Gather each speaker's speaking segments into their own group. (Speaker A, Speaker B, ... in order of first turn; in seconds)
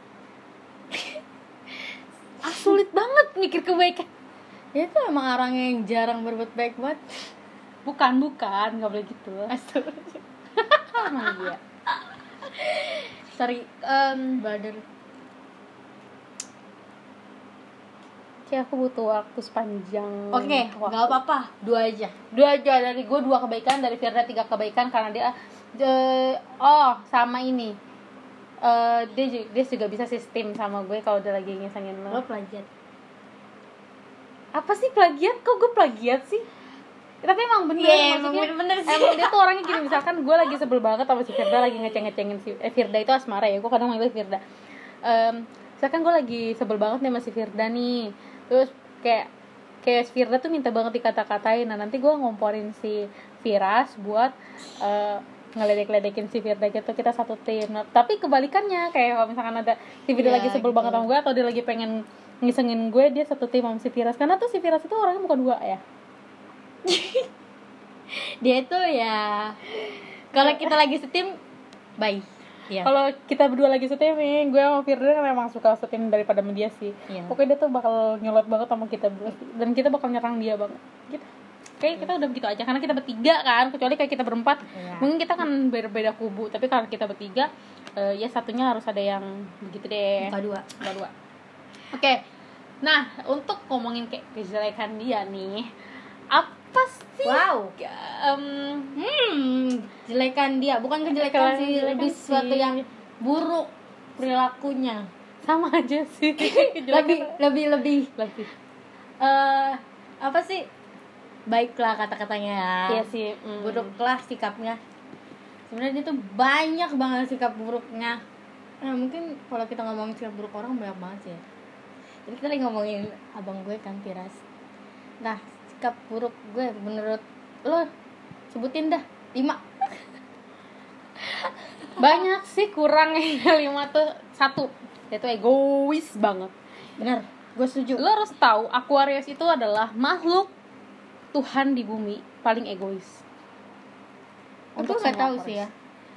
Speaker A: 2.4-4.1, 7.8-9.5, 10.9-11.6, 13.8-14.4, 18.5-21.1, 22.3-27.8, 28.6-32.2, 34.5-36.5, 37.2-44.4, 45.0-49.3, 49.8-65.8, 70.4-70.7, 72.8-91.1, 91.9-92.2, 92.8-95.7, 96.3-98.9, 101.2-102.8, 105.4-107.4, 108.2-108.5, 112.9-113.9, 132.0-136.5, 138.0-140.5, 141.3-143.2, 144.8-145.7
Speaker B: 2.5-2.8, 4.7-7.2, 9.5-11.5, 12.5-14.8, 20.3-22.1, 32.1-32.7, 37.8-39.4, 60.2-61.1, 66.8-67.3, 68.1-69.7, 70.3-71.4, 72.0-72.9, 77.1-77.3, 84.7-85.1, 90.2-90.7, 97.2-97.7, 98.9-105.1, 106.4-108.1, 109.2-110.7, 111.5-113.1, 113.6-114.8, 115.7-118.2, 118.8-121.4, 122.3-124.4, 125.2-127.9, 128.5-129.7, 131.8-132.2, 137.0-138.0, 144.8-145.7